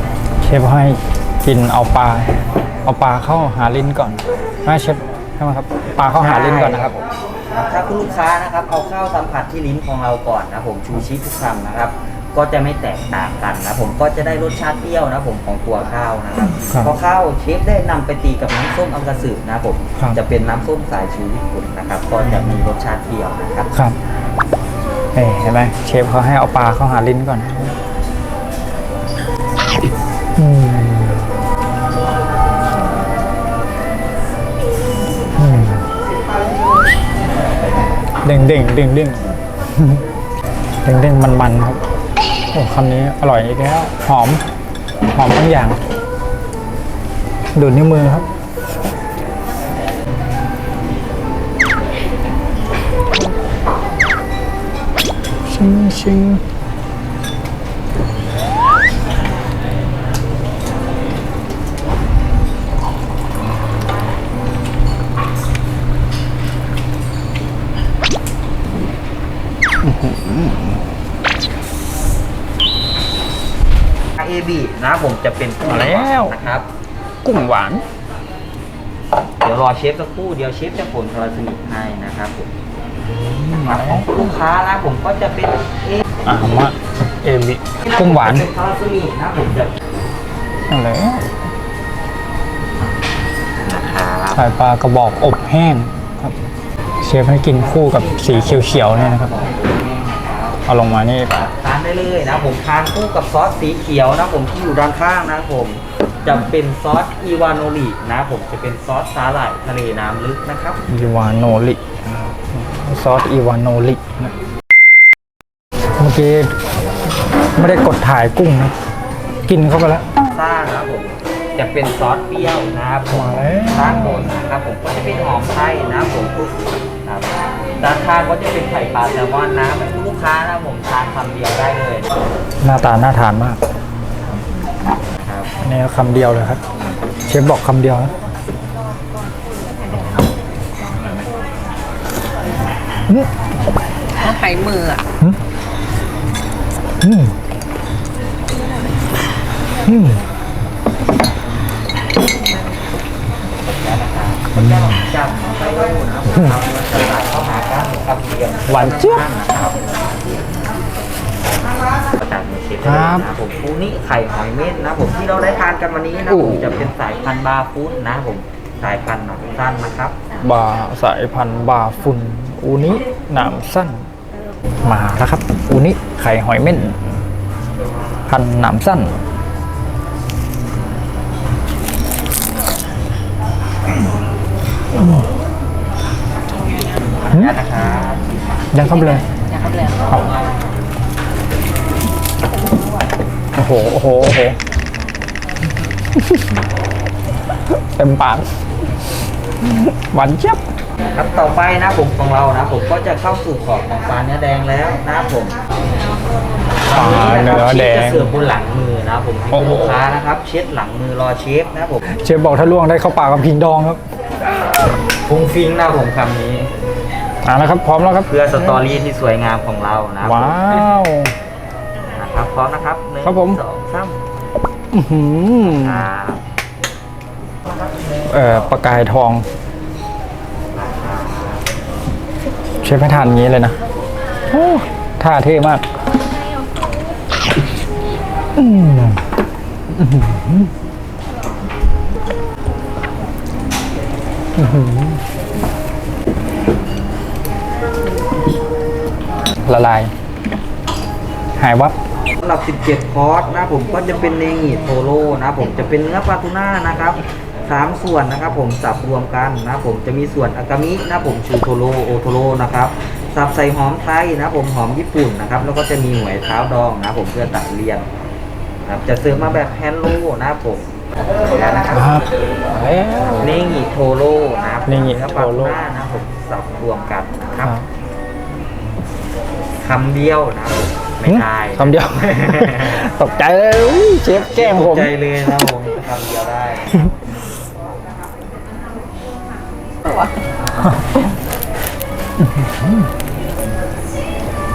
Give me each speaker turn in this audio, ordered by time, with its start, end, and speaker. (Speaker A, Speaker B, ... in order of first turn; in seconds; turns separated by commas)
Speaker A: 0.4-7.0, Speaker B: 6.1-7.0, Speaker B: 7.5-23.7, Speaker A: 22.2-22.6, Speaker A: 25.1-27.8, Speaker A: 30.4-31.3, Speaker A: 35.4-35.9, Speaker A: 38.2-40.0, Speaker A: 40.8-41.8, Speaker A: 42.5-44.4, Speaker A: 45.1-45.8, Speaker A: 47.5-48.3, Speaker A: 55.5-56.4, Speaker A: 69.8-70.8, Speaker B: 74.2-76.7, Speaker A: 75.7-76.4, Speaker A: 77.2-77.8, Speaker B: 79.4-82.5, Speaker A: 83.1-84.4, Speaker B: 83.6-86.0, Speaker A: 86.3-88.5, Speaker B: 87.8-89.7, Speaker A: 90.7-91.3, Speaker B: 93.6-94.5, Speaker A: 94.3-96.4, Speaker A: 97.0-99.3, Speaker B: 97.6-100.6, Speaker A: 100.7-101.4, Speaker B: 101.3-110.8, Speaker A: 110.9-114.3, Speaker A: 116.0-116.5, Speaker A: 117.6-118.7, Speaker A: 119.5-120.1, Speaker B: 120.3-132.1, Speaker A: 123.1-124.3, Speaker A: 132.6-133.6, Speaker B: 135.2-135.5, Speaker A: 135.6-136.6, Speaker A: 137.3-138.1, Speaker C: 139.2-140.3, Speaker C: 144.1-145.0, Speaker A: 147.0-147.3, Speaker A: 149.8-150.2, Speaker B: 153.7-160.2, Speaker A: 154.6-155.0, Speaker A: 158.7-159.2, Speaker B: 162.1-170.2, Speaker A: 162.8-163.3, Speaker A: 166.3-166.9, Speaker A: 170.4-174.1, Speaker A: 174.8-177.2, Speaker A: 178.3-179.1, Speaker A: 184.9-185.3, Speaker B: 187.2-188.2, Speaker A: 187.3-187.6, Speaker A: 188.7-189.3, Speaker C: 188.8-190.1, Speaker A: 193.6-194.6, Speaker A: 196.2-196.6, Speaker A: 197.7-198.5, Speaker A: 199.6-200.6, Speaker B: 201.2-205.6, Speaker B: 206.8-212.0, Speaker A: 206.9-208.3, Speaker A: 209.5-210.0, Speaker A: 212.2-214.0, Speaker B: 215.3-216.7, Speaker A: 217.4-218.8, Speaker B: 218.3-220.6, Speaker A: 220.2-221.3, Speaker B: 222.1-224.2, Speaker A: 223.2-223.6, Speaker A: 224.9-226.1, Speaker B: 225.6-226.4, Speaker B: 227.8-228.7, Speaker A: 228.3-229.5, Speaker B: 230.7-231.6, Speaker A: 232.8-233.8, Speaker A: 234.5-235.8, Speaker A: 238.6-239.2, Speaker A: 239.9-240.7, Speaker A: 244.6-245.2, Speaker A: 249.7-250.1, Speaker A: 251.6-251.9, Speaker B: 252.4-268.1, Speaker B: 268.9-270.9, Speaker B: 271.4-271.9, Speaker A: 271.9-273.7, Speaker B: 273.4-277.8, Speaker A: 274.9-275.8, Speaker B: 279.8-283.1, Speaker A: 281.2-285.7, Speaker B: 284.2-287.0, Speaker C: 290.1-290.3, Speaker A: 290.8-291.3, Speaker A: 292.4-293.1